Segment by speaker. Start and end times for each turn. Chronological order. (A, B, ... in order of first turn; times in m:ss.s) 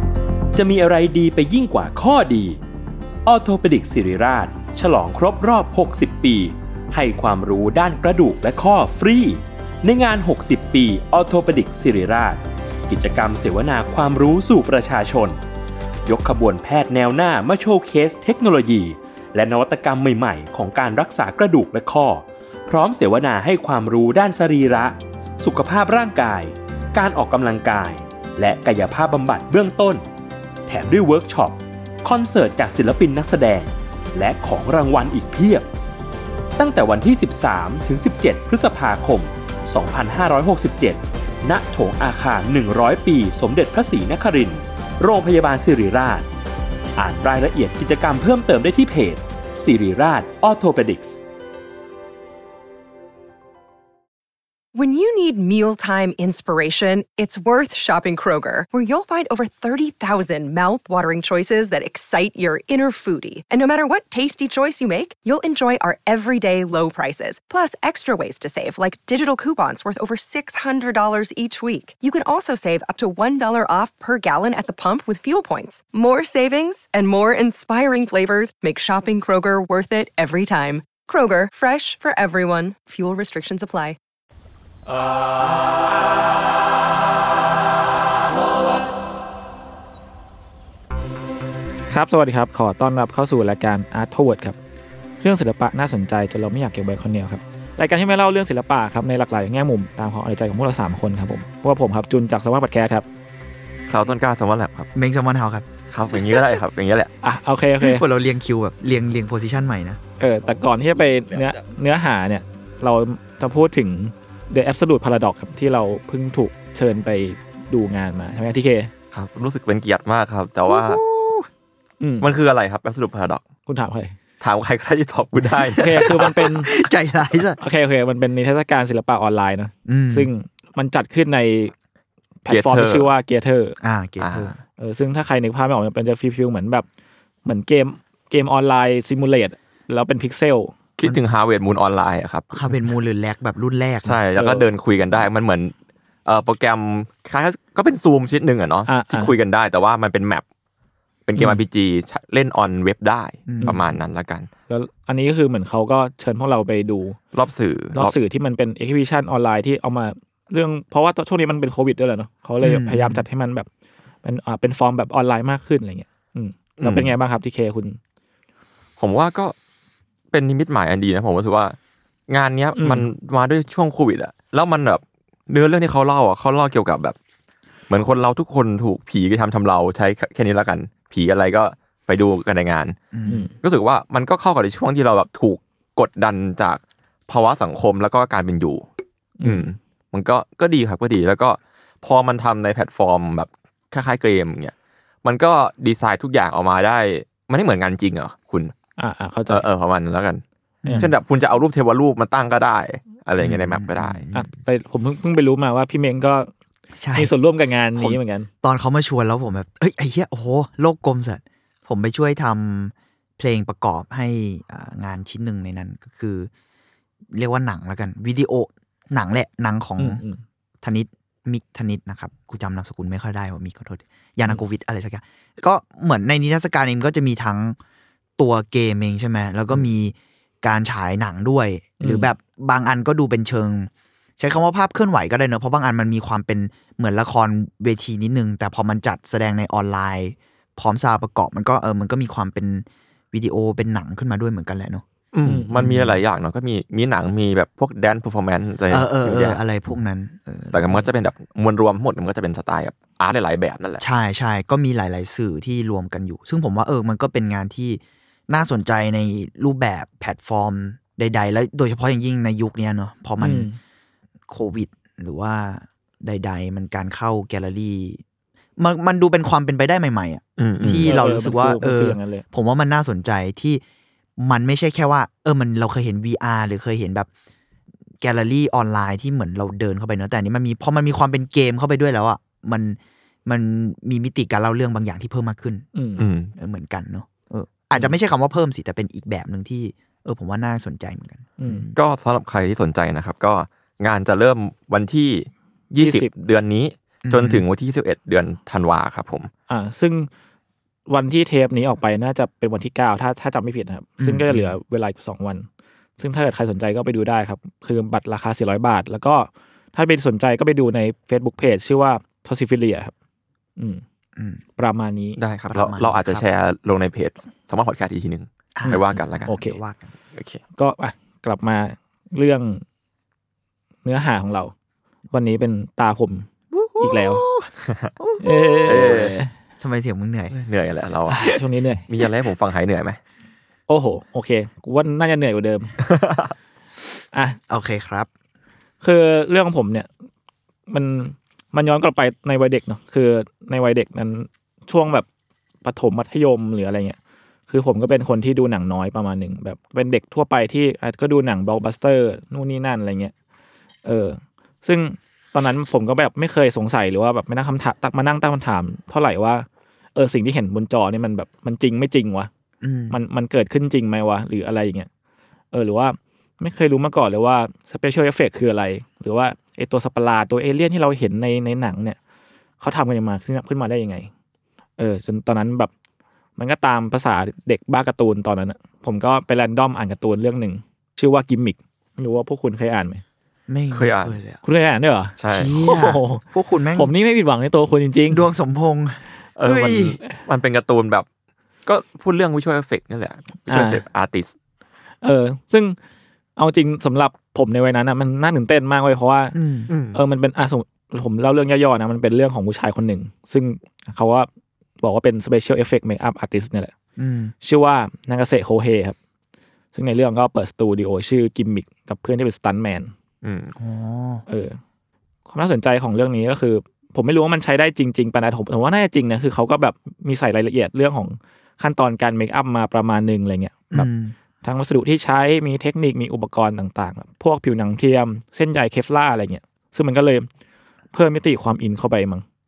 0:00.5-0:02.6 A
0:03.2-0:15.4 A
0:16.0-0:30.0 A
0:30.7-0:35.7 A
0:36.6-0:46.3 A
0:47.0-0:51.2 A
0:54.7-1:24.0 B
1:31.9-1:34.6 C
1:35.2-1:43.0 C
1:43.9-1:44.9 D
1:44.9-1:45.6 E
1:45.9-1:47.1 D
1:47.2-1:48.0 C
1:47.8-1:50.0 E
1:50.2-1:58.9 C
1:51.3-1:51.6 D
1:59.1-2:01.0 D
2:00.7-2:01.5 E
2:02.0-2:02.3 C
2:02.2-2:03.4 D
2:03.6-2:04.1 C
2:04.4-2:06.3 D
2:05.4-2:07.6 E
2:05.8-2:06.7 C
2:07.6-2:11.7 C
2:09.8-2:10.3 E
2:12.4-2:13.8 C
2:12.5-2:13.1 D
2:13.8-2:14.6 E
2:14.2-2:14.5 D
2:14.8-2:16.8 C
2:17.4-2:20.7 C
2:21.0-2:22.7 D
2:22.5-2:24.2 E
2:24.0-2:25.7 D
2:24.4-2:24.6 C
2:26.2-2:30.4 D
2:28.9-2:29.3 C
2:31.2-2:34.5 D
2:33.5-2:33.8 E
2:34.7-2:37.2 C
2:37.3-2:38.1 D
2:37.9-2:43.7 C
2:42.6-2:43.2 E
2:44.2-2:48.0 C
2:46.8-2:47.1 D
2:49.0-2:49.5 D
2:50.3-2:51.8 D
2:52.3-2:57.2 D
2:52.8-2:53.1 C
2:57.9-3:03.0 D
3:03.1-3:03.5 E
3:03.3-3:03.5 C
3:03.6-3:08.8 D
3:09.4-3:09.6 C
3:09.4-3:18.7 D
3:19.0-3:19.7 C
3:19.5-3:20.4 D
3:20.8-3:21.1 E
3:21.0-3:24.3 D
3:23.4-3:24.4 E
3:24.3-3:26.5 C
3:27.0-3:27.3 E
3:27.1-3:28.5 C
3:28.0-3:36.5 E
3:37.3-3:40.2 E
3:40.0-3:40.4 C
3:40.8-3:47.8 E
3:48.4-4:05.0 E
3:52.0-3:52.3 C
4:05.3-4:09.6 D
4:05.4-4:05.8 C
4:05.8-4:06.2 E
4:08.9-4:11.0 E
4:10.7-4:14.0 D
4:14.0-4:23.7 E
4:23.4-4:23.8 C
4:24.5-4:28.2 E
4:28.8-4:33.8 E
4:30.6-4:31.1 D
4:31.0-4:32.4 C
4:34.4-4:37.3 E
4:38.2-4:45.8 E
4:45.9-4:46.2 C
4:46.2-4:46.5 D
4:46.6-4:52.0 E
4:51.6-4:51.9 C
4:51.9-4:59.5 D
4:56.0-4:56.3 C
4:57.2-4:57.6 E
4:59.7-5:00.3 C
5:01.1-5:05.7 C
5:04.2-5:04.7 E
5:06.2-5:13.1 C
5:13.8-5:14.0 C
5:14.4-5:14.6 E
5:14.8-5:15.4 C
5:15.4-5:19.5 D
5:15.7-5:16.4 E
5:18.8-5:20.1 E
5:18.9-5:19.8 C
5:20.3-5:20.6 D
5:20.8-5:22.8 C
5:24.0-5:24.7 C
5:25.3-5:26.5 C
5:26.7-5:29.3 E
5:27.0-5:27.4 C
5:27.8-5:28.1 D
5:28.4-5:29.5 C
5:28.9-5:29.4 D
5:29.8-5:30.5 E
5:30.5-5:33.2 D
5:31.3-5:32.0 C
5:33.9-5:36.0 C
5:36.0-5:36.5 D
5:37.3-5:37.6 C
5:37.7-5:38.3 E
5:39.0-5:40.1 C
5:40.9-5:45.3 C
5:45.8-5:47.2 C
5:47.7-5:53.3 C
5:54.0-6:02.5 C
6:02.8-6:03.2 E
6:03.1-6:05.1 C
6:05.7-6:12.2 C
6:12.8-6:14.3 C
6:15.0-6:15.9 C
6:16.6-6:23.2 C
6:23.7-6:24.6 E
6:23.9-6:24.4 D
6:24.6-6:26.4 C
6:25.4-6:25.8 D
6:25.5-6:27.1 E
6:26.9-6:28.4 C
6:28.3-6:30.2 E
6:29.6-6:31.2 D
6:31.8-6:34.5 D
6:33.7-6:34.0 C
6:35.2-6:36.0 C
6:36.6-6:39.6 C
6:39.5-6:39.9 E
6:39.9-6:40.2 D
6:40.1-6:44.5 C
6:45.0-6:46.9 C
6:47.2-6:47.5 E
6:47.6-6:49.2 C
6:49.9-6:53.1 C
6:53.4-6:53.8 D
6:53.8-6:54.4 E
6:54.5-6:54.8 C
6:55.5-7:04.1 C
7:03.9-7:04.3 E
7:04.6-7:10.5 C
7:11.1-7:12.4 C